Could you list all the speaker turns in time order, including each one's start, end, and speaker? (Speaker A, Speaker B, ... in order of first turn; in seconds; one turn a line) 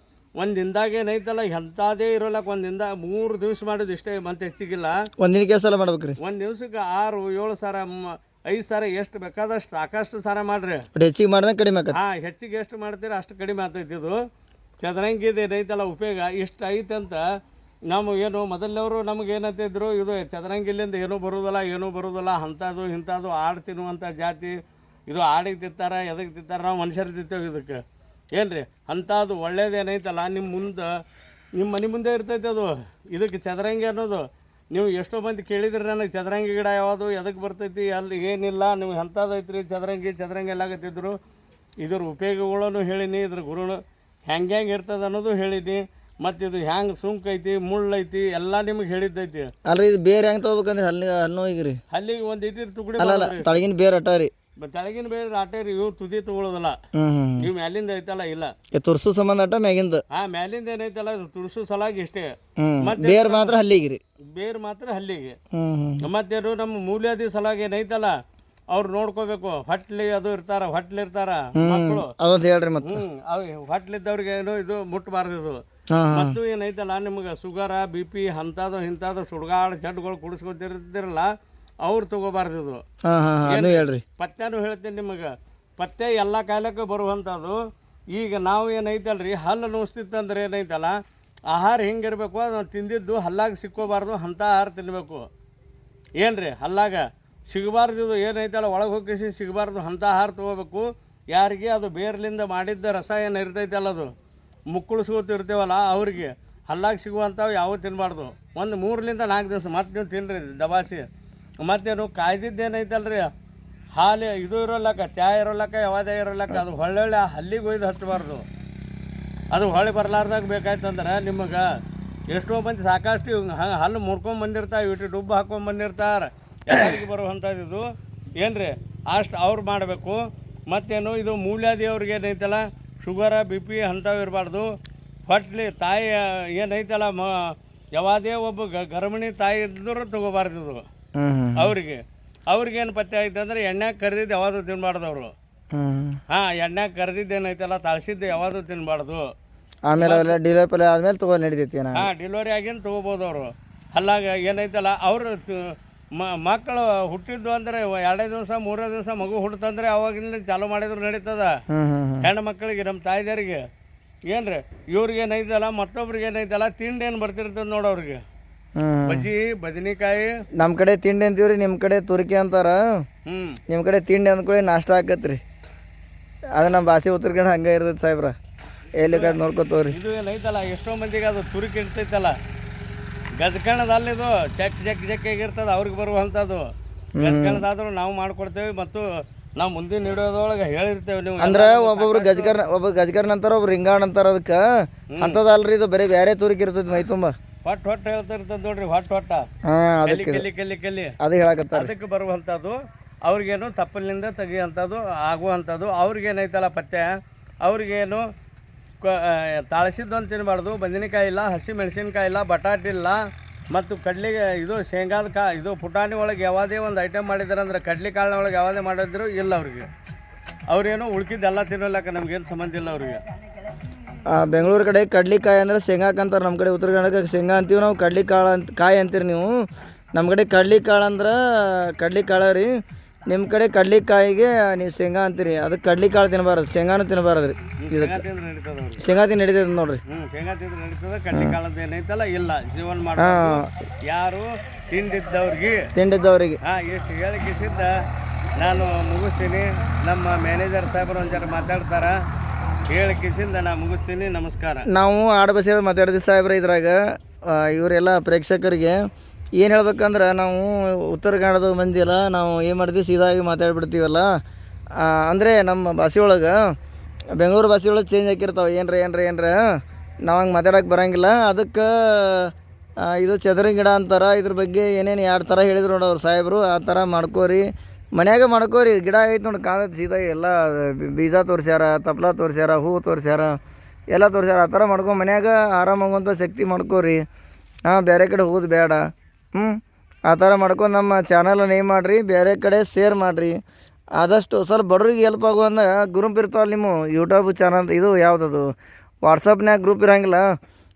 Speaker A: 0.4-4.9
Speaker B: 5.2-6.2
Speaker A: 6.2-10.8
Speaker B: 10.9-12.0
Speaker A: 11.9-14.2
Speaker A: 14.8-17.2
Speaker A: 17.9-24.6
Speaker A: 25.1-27.8
Speaker A: 28.3-30.9
Speaker A: 31.6-41.1
Speaker A: 41.8-49.5
Speaker B: 49.6-51.8
Speaker A: 51.9-53.6
Speaker B: 53.0-54.3
Speaker A: 54.6-56.8
Speaker B: 56.9-57.5
Speaker A: 57.4-58.5
Speaker B: 58.7-60.0
Speaker A: 60.1-63.6
Speaker B: 62.6-64.0
Speaker A: 64.3-65.4
Speaker B: 65.5-66.1
Speaker A: 66.0-68.1
Speaker A: 68.7-72.1
Speaker B: 71.5-73.0
Speaker A: 72.8-75.6
Speaker B: 75.9-76.4
Speaker A: 76.1-81.3
Speaker A: 81.8-82.8
Speaker B: 83.0-84.0
Speaker A: 83.4-87.6
Speaker A: 88.1-91.0
Speaker A: 91.5-95.2
Speaker A: 96.2-104.1
Speaker A: 104.7-111.0
Speaker A: 111.6-113.3
Speaker A: 114.0-118.4
Speaker A: 119.5-121.7
Speaker A: 122.3-127.8
Speaker A: 128.4-134.7
Speaker A: 135.3-140.8
Speaker B: 141.2-141.7
Speaker A: 141.6-145.3
Speaker B: 145.7-146.2
Speaker A: 146.3-149.2
Speaker B: 149.9-152.1
Speaker A: 150.0-150.4
Speaker A: 151.9-161.5
Speaker B: 161.7-162.3
Speaker A: 162.2-163.6
Speaker A: 164.3-168.2
Speaker B: 168.8-169.3
Speaker A: 169.1-170.3
Speaker B: 170.6-172.8
Speaker A: 173.3-173.6
Speaker B: 173.7-175.4
Speaker B: 176.6-178.3
Speaker B: 179.0-180.0
Speaker A: 179.0-179.4
Speaker A: 179.9-182.3
Speaker A: 183.4-186.7
Speaker B: 187.1-187.7
Speaker A: 187.2-189.1
Speaker A: 189.6-192.6
Speaker B: 191.4-194.6
Speaker A: 195.1-195.4
Speaker B: 195.2-197.3
Speaker A: 197.6-199.4
Speaker B: 199.7-200.4
Speaker A: 200.0-201.1
Speaker B: 201.2-201.9
Speaker A: 201.7-207.1
Speaker A: 207.6-208.2
Speaker A: 209.0-213.2
Speaker A: 213.7-219.9
Speaker A: 220.7-223.2
Speaker B: 224.3-229.5
Speaker B: 230.1-232.7
Speaker B: 233.3-238.2
Speaker A: 237.8-239.1
Speaker B: 239.0-240.0
Speaker A: 240.1-245.9
Speaker B: 241.3-241.6
Speaker B: 243.2-243.7
Speaker B: 245.9-246.6
Speaker A: 246.6-247.9
Speaker A: 248.6-252.2
Speaker A: 252.9-254.8
Speaker B: 254.9-259.0
Speaker B: 259.6-264.3
Speaker B: 264.9-266.5
Speaker B: 267.3-269.6
Speaker B: 270.3-277.6
Speaker B: 278.2-283.6
Speaker B: 284.1-287.2
Speaker B: 287.9-289.0
Speaker B: 289.5-293.6
Speaker B: 294.2-298.7
Speaker B: 299.2-300.4